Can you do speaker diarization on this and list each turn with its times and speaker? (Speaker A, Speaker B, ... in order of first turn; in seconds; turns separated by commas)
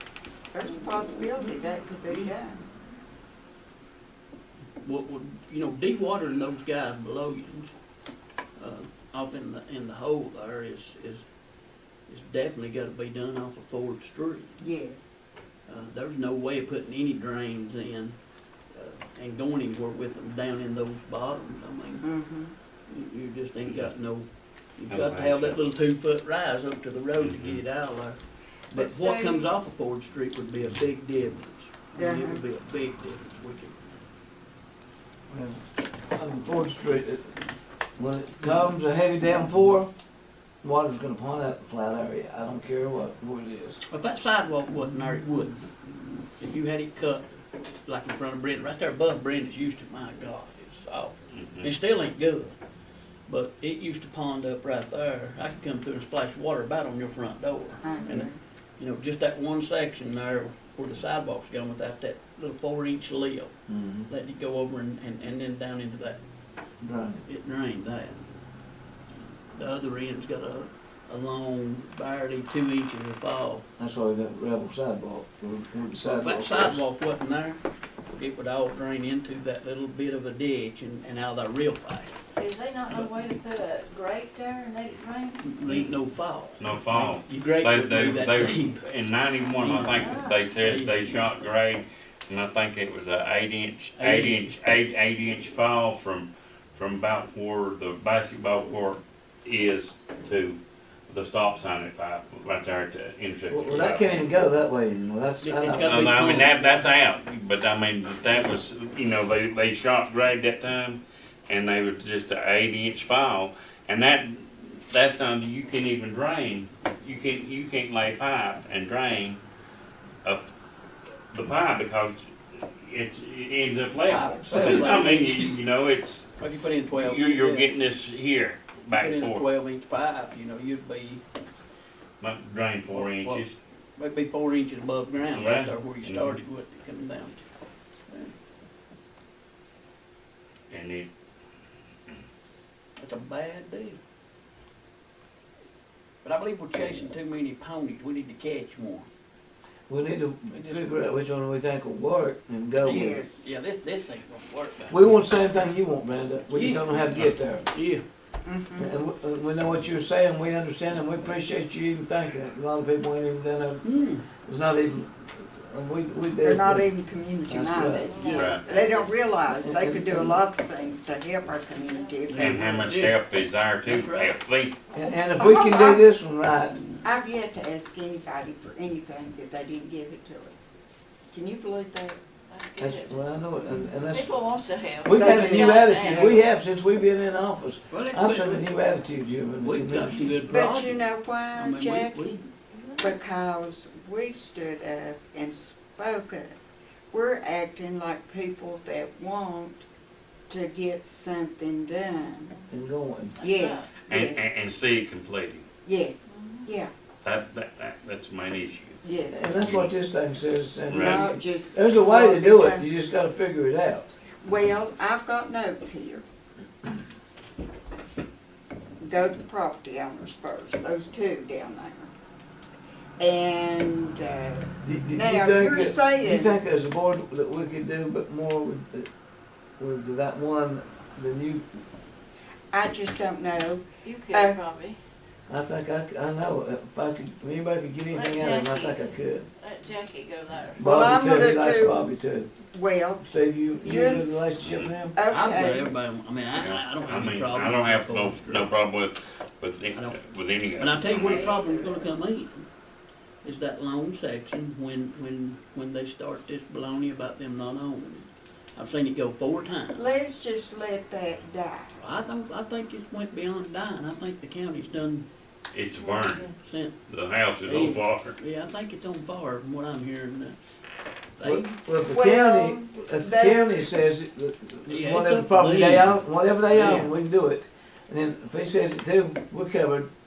Speaker A: 0.5-2.6, Speaker B: 4.8-7.7, Speaker B: 8.6-11.3, Speaker B: 12.1-14.6, Speaker A: 14.6-15.0, Speaker B: 15.7-18.2, Speaker B: 18.7-22.1, Speaker A: 22.0-22.5, Speaker B: 22.9-28.2, Speaker C: 23.6-23.9, Speaker C: 24.9-25.6, Speaker C: 27.2-27.6, Speaker B: 28.7-33.8, Speaker A: 28.7-29.5, Speaker A: 31.9-32.4, Speaker D: 35.3-37.3, Speaker D: 38.0-39.9, Speaker D: 40.6-43.8, Speaker B: 43.9-47.3, Speaker B: 47.9-52.5, Speaker C: 51.3-51.7, Speaker B: 53.3-63.5, Speaker A: 57.8-58.4, Speaker D: 63.7-64.1, Speaker B: 64.1-66.2, Speaker D: 66.8-67.2, Speaker B: 67.2-68.3, Speaker B: 69.5-73.7, Speaker D: 73.8-76.9, Speaker B: 76.0-77.6, Speaker B: 78.1-82.2, Speaker E: 82.4-85.5, Speaker B: 82.9-83.2, Speaker B: 85.4-88.8, Speaker C: 85.7-86.0, Speaker C: 86.6-104.4, Speaker B: 89.5-91.3, Speaker E: 89.9-90.4, Speaker B: 94.0-94.6, Speaker D: 103.5-106.2, Speaker B: 105.4-106.9, Speaker C: 105.8-119.4, Speaker C: 121.3-126.3, Speaker B: 124.1-125.6, Speaker B: 126.4-127.7, Speaker C: 126.9-129.5, Speaker B: 128.9-131.2, Speaker C: 132.2-133.5, Speaker B: 132.9-133.4, Speaker B: 134.0-137.4, Speaker C: 135.3-136.4, Speaker B: 138.1-138.3, Speaker C: 140.7-141.1, Speaker B: 143.0-144.0, Speaker B: 146.2-149.1, Speaker D: 149.9-153.2, Speaker B: 150.5-150.9, Speaker B: 152.8-155.3, Speaker A: 152.8-153.4, Speaker D: 154.9-157.7, Speaker B: 156.5-158.0, Speaker A: 158.4-158.9, Speaker D: 158.8-163.8, Speaker B: 163.8-164.2, Speaker D: 164.4-166.9, Speaker A: 166.4-172.8, Speaker D: 167.5-168.2, Speaker E: 168.0-169.2, Speaker C: 168.3-168.6, Speaker D: 169.5-170.4, Speaker B: 172.3-173.2, Speaker C: 172.3-174.7, Speaker B: 173.8-174.4, Speaker D: 174.9-176.8, Speaker A: 175.3-176.0, Speaker A: 177.0-180.7, Speaker A: 181.3-182.2, Speaker E: 182.5-183.2, Speaker D: 182.8-184.4, Speaker E: 184.0-186.4, Speaker D: 185.0-190.3, Speaker A: 185.1-186.2, Speaker B: 187.9-188.7, Speaker B: 189.6-192.4, Speaker A: 190.5-192.4, Speaker E: 192.9-193.1, Speaker A: 193.0-196.6, Speaker A: 197.1-199.8, Speaker A: 200.5-202.6, Speaker D: 202.7-203.4, Speaker E: 203.4-203.9, Speaker A: 203.4-204.5, Speaker C: 204.1-205.6, Speaker A: 205.8-206.9, Speaker E: 206.2-206.7, Speaker C: 207.2-209.9, Speaker A: 209.0-209.7, Speaker D: 209.3-214.1, Speaker C: 210.9-211.3, Speaker A: 210.9-212.8, Speaker A: 214.4-216.2, Speaker A: 219.0-222.1, Speaker A: 223.2-226.6, Speaker D: 224.8-229.1, Speaker D: 229.8-231.7, Speaker A: 232.7-234.6, Speaker E: 234.0-235.0, Speaker D: 235.5-239.5, Speaker E: 238.1-240.8, Speaker D: 240.7-242.5, Speaker A: 240.8-242.1, Speaker A: 242.7-243.2, Speaker D: 243.2-245.2, Speaker A: 243.8-244.4, Speaker C: 244.6-244.9, Speaker A: 245.1-245.9, Speaker B: 245.3-248.7, Speaker C: 246.5-251.5, Speaker B: 249.9-250.2, Speaker B: 250.8-252.6, Speaker E: 251.1-252.1, Speaker B: 253.4-260.1, Speaker A: 259.9-262.0, Speaker B: 262.0-265.3, Speaker C: 265.7-266.5, Speaker E: 266.0-266.5, Speaker B: 266.6-267.0, Speaker C: 267.1-268.4, Speaker B: 267.6-270.6, Speaker B: 271.4-271.7, Speaker D: 271.4-280.1, Speaker A: 272.0-273.8, Speaker B: 274.9-276.2, Speaker B: 276.7-277.1